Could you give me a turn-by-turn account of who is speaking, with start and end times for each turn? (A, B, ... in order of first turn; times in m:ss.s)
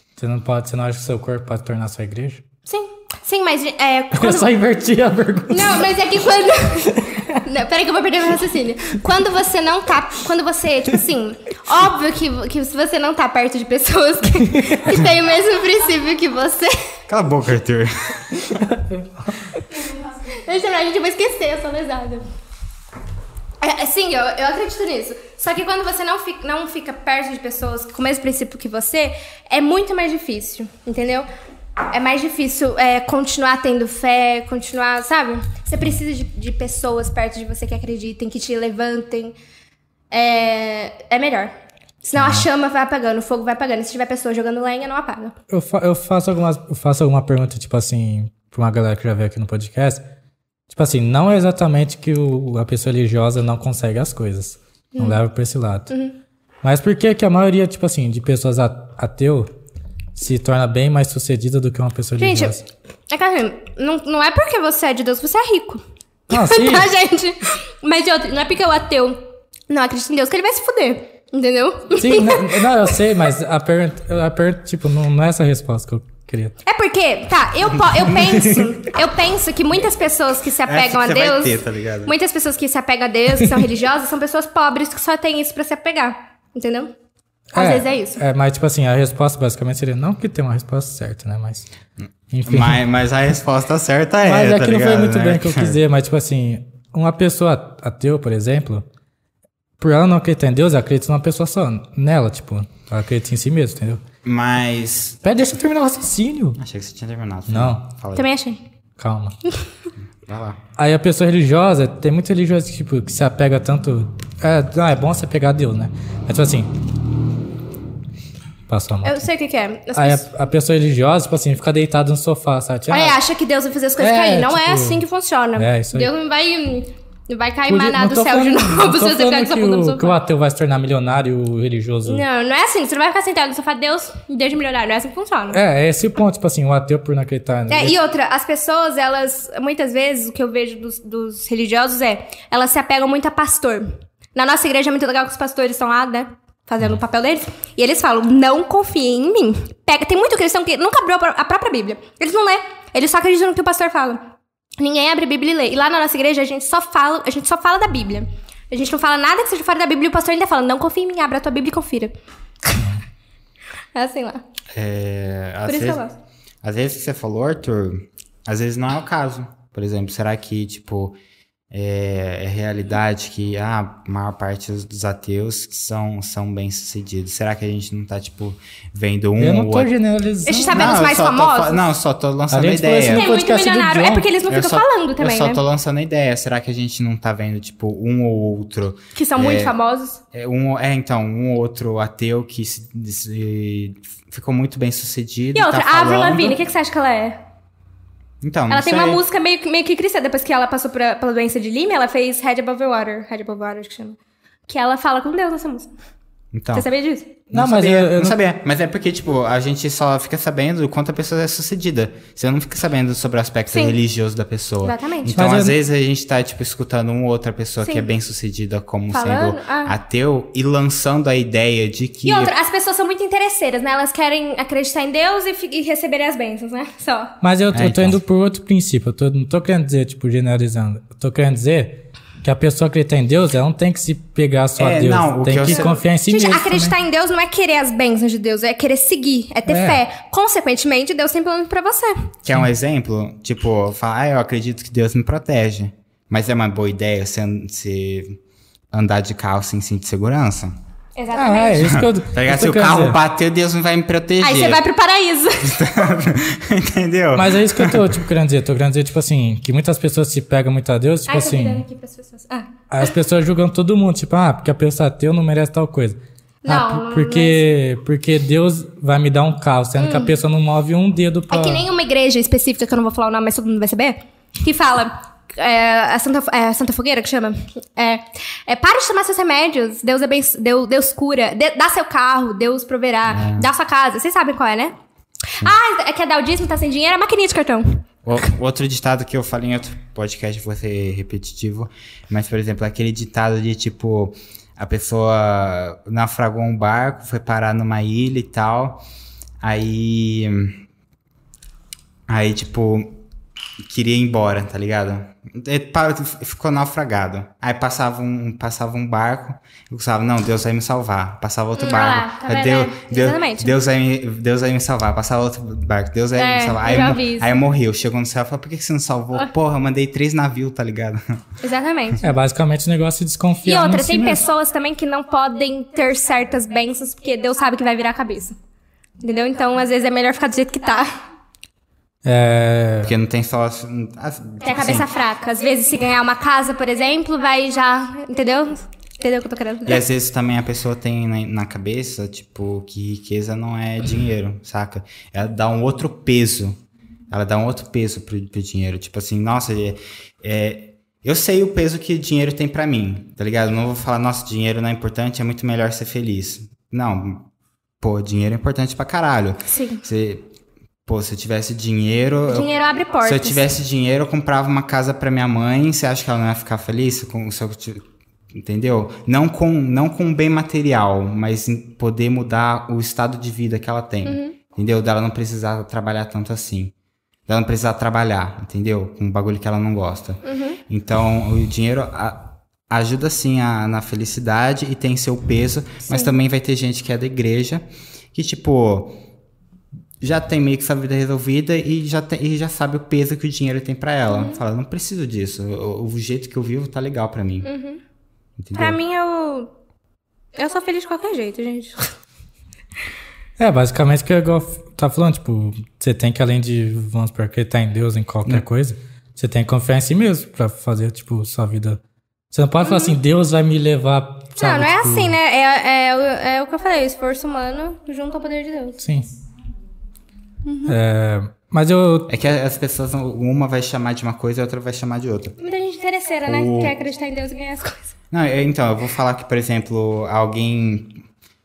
0:00.2-0:02.4 A
0:02.7-0:04.5 B
0:04.1-0:05.9 A
0:05.5-0:16.9 B
0:14.5-0:14.8 A
0:17.1-0:18.6 C
0:18.5-0:19.6 A
0:19.9-0:22.2 B
0:23.6-0:31.3 B
0:31.9-0:39.4 B
0:40.1-0:45.3 B
0:42.2-0:42.4 A
0:45.5-0:50.0 A
0:50.7-0:55.9 A
0:55.9-0:56.2 B
0:56.6-0:59.5 A
1:00.2-1:02.6 A
1:02.2-1:02.6 B
1:03.1-1:13.0 B
1:06.3-1:06.9 A
1:12.0-1:16.6 A
1:16.6-1:26.9 B
1:18.1-1:18.7 A
1:20.6-1:22.1 C
1:27.5-1:31.7 A
1:27.5-1:28.2 B
1:32.3-1:32.8 A
1:32.4-1:35.8 C
1:34.2-1:38.8 A
1:39.8-1:44.0 A
1:44.2-1:45.2 C
1:45.2-1:46.6 A
1:46.6-1:48.3 C
1:47.5-1:47.8 A
1:48.1-1:48.6 B
1:49.0-1:49.4 A
1:50.2-1:50.6 C
1:50.8-1:56.7 A
1:58.7-1:59.2 A
1:59.0-2:00.2 B
1:59.9-2:03.2 A
2:02.9-2:10.2 B
2:04.0-2:05.0 A
2:05.6-2:06.1 A
2:07.7-2:12.2 A
2:12.0-2:15.6 B
2:15.5-2:18.0 A
2:17.7-2:42.1 B
2:42.7-2:43.0 A
2:43.9-2:44.4 B
2:44.7-2:46.0 C
2:45.6-2:46.2 B
2:46.6-2:51.2 C
2:51.7-2:59.9 C
2:59.4-3:00.9 A
3:00.4-3:01.9 B
3:00.7-3:03.3 C
3:02.5-3:04.3 A
3:03.1-3:05.6 B
3:04.5-3:09.7 C
3:09.1-3:10.2 B
3:10.3-3:16.6 C
3:15.5-3:17.4 B
3:18.4-3:19.2 C
3:18.7-3:24.2 B
3:24.7-3:25.9 B
3:26.5-3:26.9 C
3:26.7-3:27.3 B
3:27.5-3:42.5 C
3:27.5-3:28.4 A
3:33.7-3:34.0 B
3:34.8-3:35.4 B
3:35.3-3:35.8 A
3:37.8-3:38.1 B
3:39.1-3:40.0 B
3:42.2-3:47.3 B
3:47.4-3:57.0 A
3:47.7-3:48.2 C
3:54.8-3:56.0 C
3:55.7-4:02.3 B
3:59.7-4:00.0 A
4:02.4-4:08.4 C
4:08.9-4:10.7 C
4:11.2-4:12.0 B
4:11.3-4:13.2 A
4:11.8-4:14.8 C
4:14.4-4:16.0 B
4:15.6-4:18.2 C
4:17.3-4:21.8 A
4:21.3-4:23.1 B
4:22.9-4:31.9 A
4:26.6-4:27.7 B
4:30.0-4:30.4 B
4:31.5-4:45.0 B
4:43.3-4:43.7 C
4:45.5-4:48.0 B
4:48.2-4:59.0 C
4:59.6-5:00.8 C
5:02.3-5:03.2 C
5:03.8-5:21.4 C
5:11.8-5:13.7 B
5:16.4-5:17.6 B
5:21.6-5:22.2 B
5:22.2-5:24.4 A
5:23.6-5:28.5 B
5:29.2-5:31.2 B
5:32.2-5:33.1 A
5:33.0-5:35.1 C
5:34.6-5:40.0 B
5:39.9-5:46.8 C
5:47.3-5:57.5 C
5:58.0-6:00.5 C
5:59.7-6:00.0 B
6:01.0-6:16.9 C
6:02.5-6:03.7 B
6:14.2-6:14.6 B
6:17.5-6:29.2 C
6:20.4-6:20.8 B
6:30.2-6:37.7 C
6:34.3-6:34.6 B
6:37.6-6:38.0 B
6:38.6-6:39.0 C
6:38.7-6:39.7 B
6:40.6-6:42.1 B
6:43.6-6:52.0 A
6:52.5-6:55.4 A
6:52.8-6:53.2 B
6:54.6-6:59.0 B
6:59.0-6:59.3 A
7:00.6-7:01.0 B
7:00.9-7:02.3 A
7:02.3-7:05.6 C
7:05.6-7:08.1 B
7:06.5-7:06.9 C
7:08.3-7:11.2 C